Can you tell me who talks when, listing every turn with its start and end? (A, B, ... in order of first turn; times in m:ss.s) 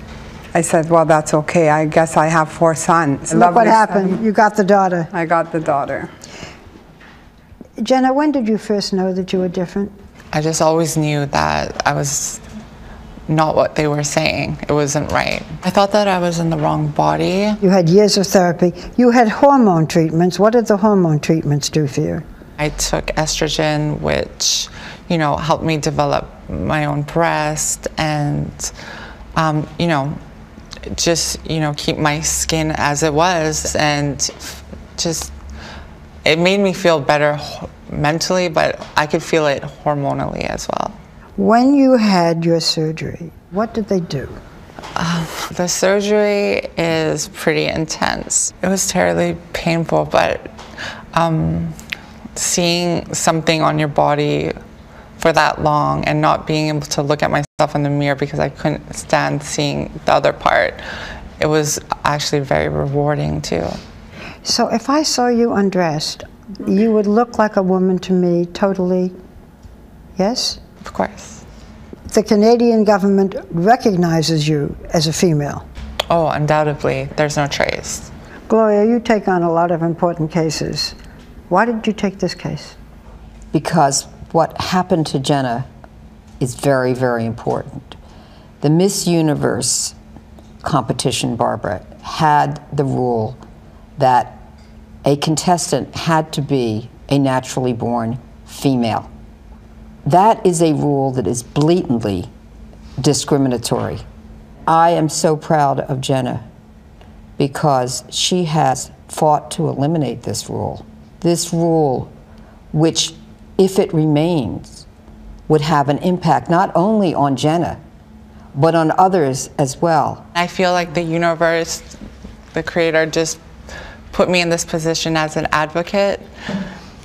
0:00.5-0:04.2 A
0:03.3-0:05.1 B
0:05.1-0:06.1 A
0:07.8-0:09.9 B
0:10.3-0:12.4 C
0:13.3-0:17.6 C
0:17.6-0:22.2 B
0:22.6-0:28.7 C
0:29.4-0:30.2 C
0:30.9-0:35.3 C
0:36.2-0:41.0 C
0:41.4-0:44.4 B
0:45.0-0:50.6 C
0:51.1-0:51.8 C
0:52.4-0:54.6 C
0:55.2-1:00.8 C
1:01.4-1:03.8 C
1:04.4-1:09.1 B
1:10.2-1:10.6 B
1:10.8-1:11.4 C
1:12.1-1:15.6 B
1:16.1-1:18.1 C
1:18.5-1:21.0 B
1:21.5-1:22.8 B
1:23.5-1:25.7 D
1:26.4-1:28.0 D
1:28.6-1:30.0 D
1:30.6-1:33.4 D
1:34.0-1:34.4 D
1:35.0-1:39.1 D
1:40.0-1:42.3 D
1:43.0-1:44.0 D
1:44.7-1:46.5 D
1:47.4-1:52.1 D
1:52.7-1:54.9 D
1:55.5-1:57.8 D
1:58.5-2:00.3 D
2:00.4-2:02.0 C
2:02.5-2:03.4 C
2:04.1-2:06.3 C